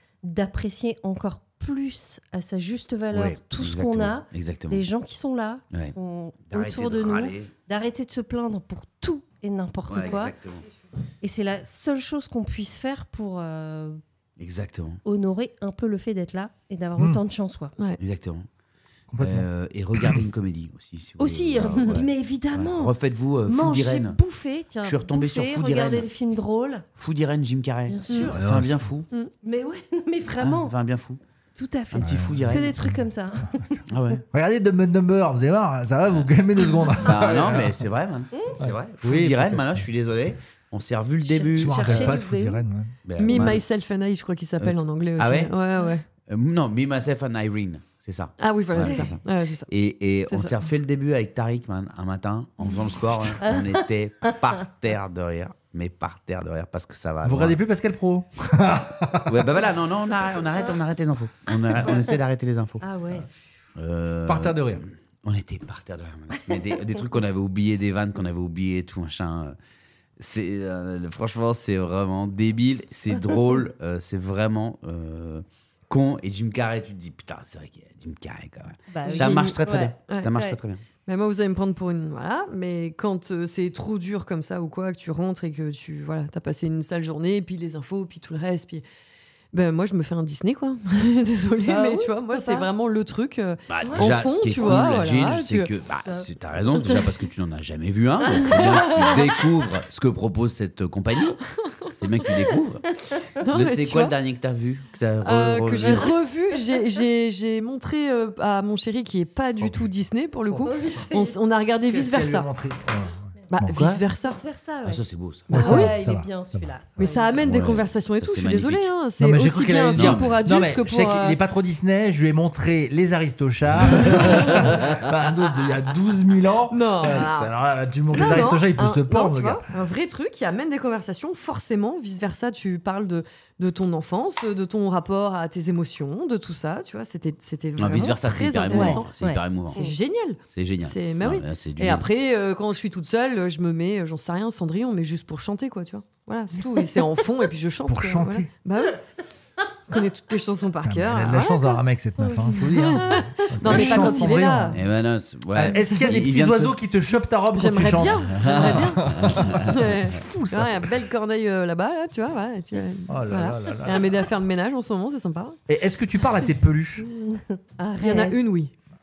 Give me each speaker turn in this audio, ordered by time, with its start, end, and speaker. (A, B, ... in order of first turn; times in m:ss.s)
0:00.2-0:10.3 A
0:03.1-0:04.8 B
0:06.5-0:07.5 B
0:09.9-0:10.7 B
0:10.1-0:10.7 C
0:11.2-0:14.0 A
0:14.4-0:15.0 B
0:15.0-0:17.7 A
0:18.0-0:18.5 B
0:19.1-0:19.5 D
0:19.2-0:24.2 B
0:20.0-0:20.2 D
0:21.2-0:22.9 A
0:23.5-0:26.9 A
0:24.8-0:26.1 B
0:27.0-0:29.1 B
0:27.9-0:28.4 A
0:28.3-0:28.8 D
0:29.4-0:30.7 A
0:30.4-0:31.2 B
0:31.6-0:33.7 A
0:31.9-0:32.7 B
0:32.0-0:33.0 D
0:33.9-0:34.2 B
0:34.3-0:37.8 D
0:37.0-0:42.2 B
0:38.6-0:39.8 D
0:41.2-0:42.6 A
0:41.6-0:42.9 D
0:43.0-0:43.6 B
0:43.2-0:46.0 C
0:44.6-0:45.5 B
0:46.3-0:57.6 B
0:48.4-0:49.7 C
0:50.3-0:50.6 C
0:57.2-0:59.4 D
0:59.3-1:03.2 B
1:02.8-1:03.3 A
1:03.8-1:09.6 B
1:04.3-1:04.8 D
1:10.2-1:20.8 B
1:18.9-1:20.6 A
1:19.1-1:19.6 C
1:20.1-1:20.4 C
1:21.1-1:28.8 C
1:29.5-1:35.7 C
1:31.7-1:32.7 A
1:33.7-1:41.4 B
1:33.8-1:34.1 A
1:38.6-1:39.0 C
1:42.0-1:42.9 B
1:43.4-1:44.2 C
1:43.4-1:46.2 B
1:45.2-1:52.5 C
1:50.6-1:51.4 A
1:51.9-1:54.0 D
1:53.5-1:54.4 C
1:54.2-1:57.4 A
1:54.8-1:55.6 B
1:55.5-1:56.7 D
1:55.5-1:56.0 C
1:57.0-2:01.4 C
1:57.4-1:58.9 B
1:59.2-2:09.6 D
1:59.9-2:00.4 B
2:03.7-2:05.0 B
2:03.9-2:04.8 C
2:06.7-2:07.6 C
2:08.1-2:19.1 C
2:17.8-2:19.9 B
2:18.7-2:19.9 A
2:19.7-2:29.0 C
2:20.5-2:22.1 B
2:27.9-2:28.5 D
2:29.9-2:31.8 C
2:30.8-2:34.8 D
2:32.2-2:32.5 A
2:32.6-2:34.8 C
2:33.7-2:34.2 A
2:34.7-2:36.8 B
2:35.5-2:40.9 D
2:35.6-2:36.2 C
2:37.5-2:45.6 C
2:38.4-2:39.9 B
2:43.1-2:44.2 D
2:45.7-2:47.0 D
2:47.1-2:48.4 A
2:48.0-2:48.7 C